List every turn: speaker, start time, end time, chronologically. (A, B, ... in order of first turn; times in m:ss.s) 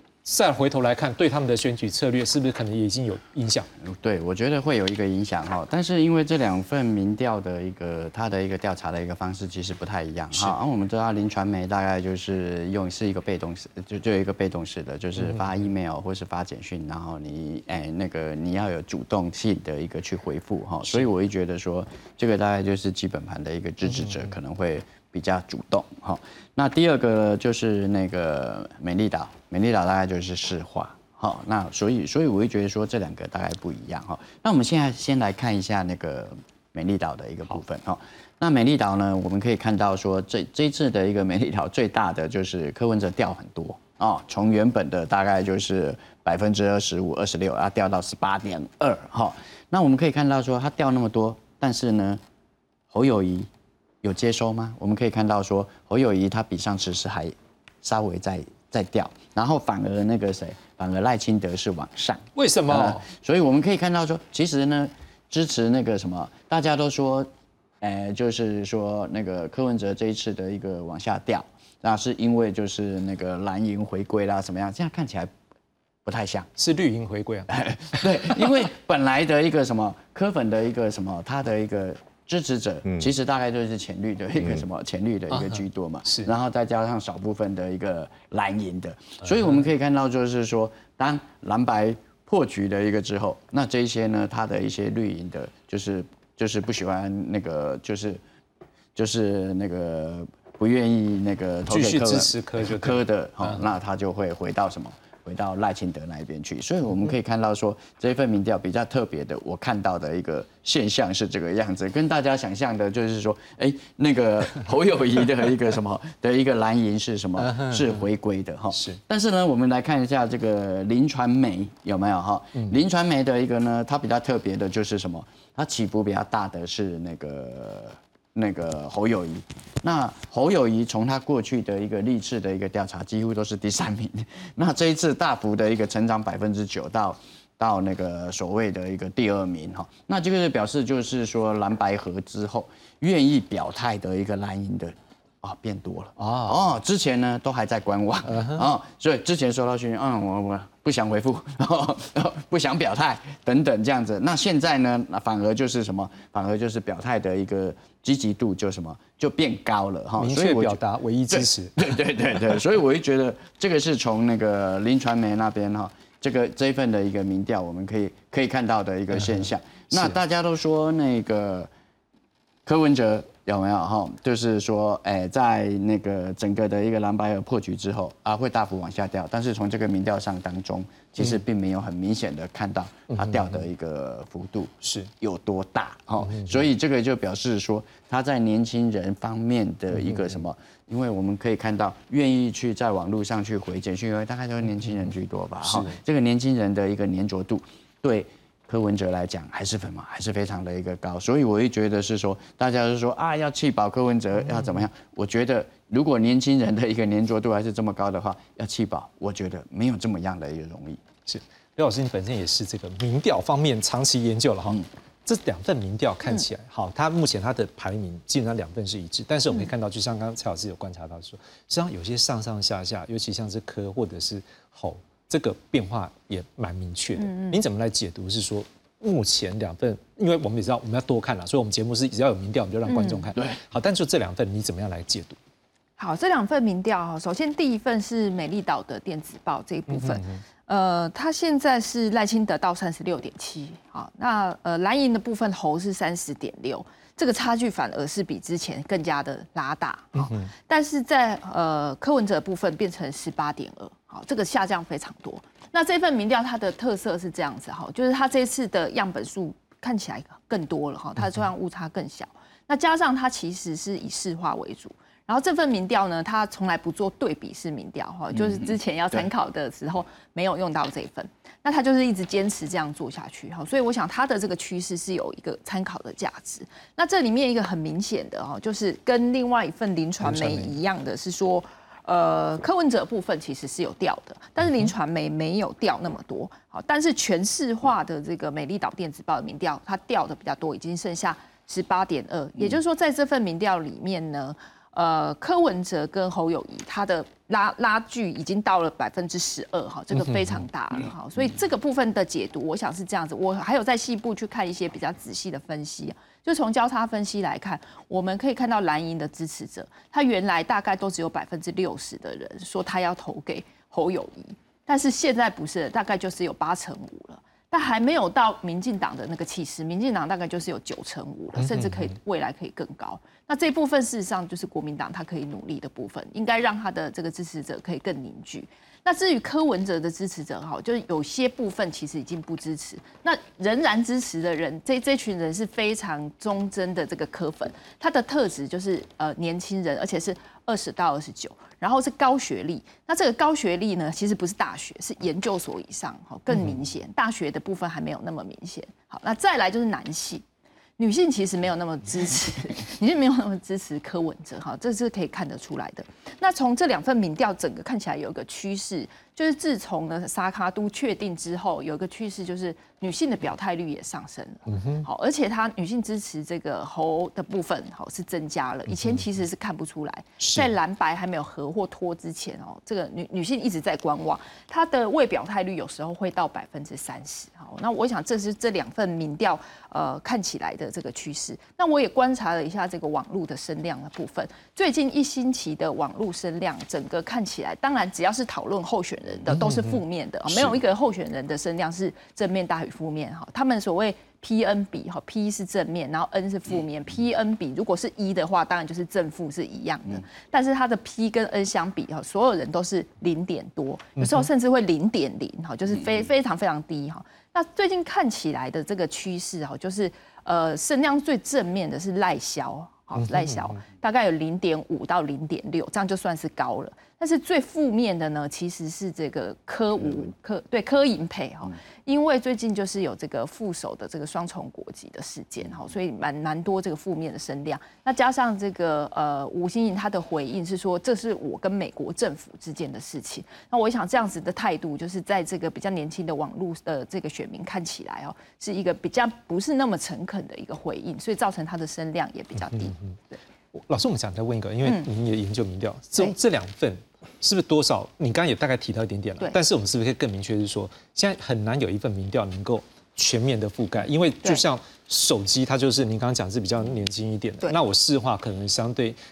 0:00.2-0:03.7 A
0:03.8-0:52.2 B
0:15.2-0:15.5 A
0:23.9-0:24.3 A
0:52.9-0:53.5 B
0:54.0-1:07.3 B
1:02.4-1:03.0 A
1:07.8-1:15.3 B
1:16.0-1:16.5 B
1:16.6-1:18.5 A
1:17.5-1:38.2 B
1:25.3-1:26.3 A
1:38.9-2:51.7 B
1:41.7-1:43.6 A
1:57.4-1:58.0 A
1:58.7-1:59.0 A
2:26.2-2:26.6 A
2:28.3-2:28.6 A
2:40.2-2:41.9 A
2:49.1-2:50.1 A
2:52.6-3:31.0 B
3:03.1-3:03.6 A
3:04.8-3:05.1 A
3:06.2-3:06.6 A
3:09.9-3:10.3 A
3:15.6-3:16.0 A
3:24.5-3:24.8 A
3:31.2-3:55.4 A
3:47.2-3:47.6 C
3:52.9-3:53.3 C
3:56.0-5:50.4 C
3:59.9-4:00.4 A
4:10.1-4:10.5 A
4:28.3-4:29.3 B
4:40.2-4:40.7 A
4:44.6-4:44.9 A
5:00.1-5:00.6 A
5:21.6-5:22.2 A
5:51.0-7:23.4 C
6:04.7-6:05.1 A
6:08.9-6:09.2 A
6:10.4-6:10.7 A
6:29.5-6:30.0 A
6:44.2-6:44.4 A
6:53.2-6:53.7 A
7:22.6-7:23.1 A
7:23.7-7:39.2 A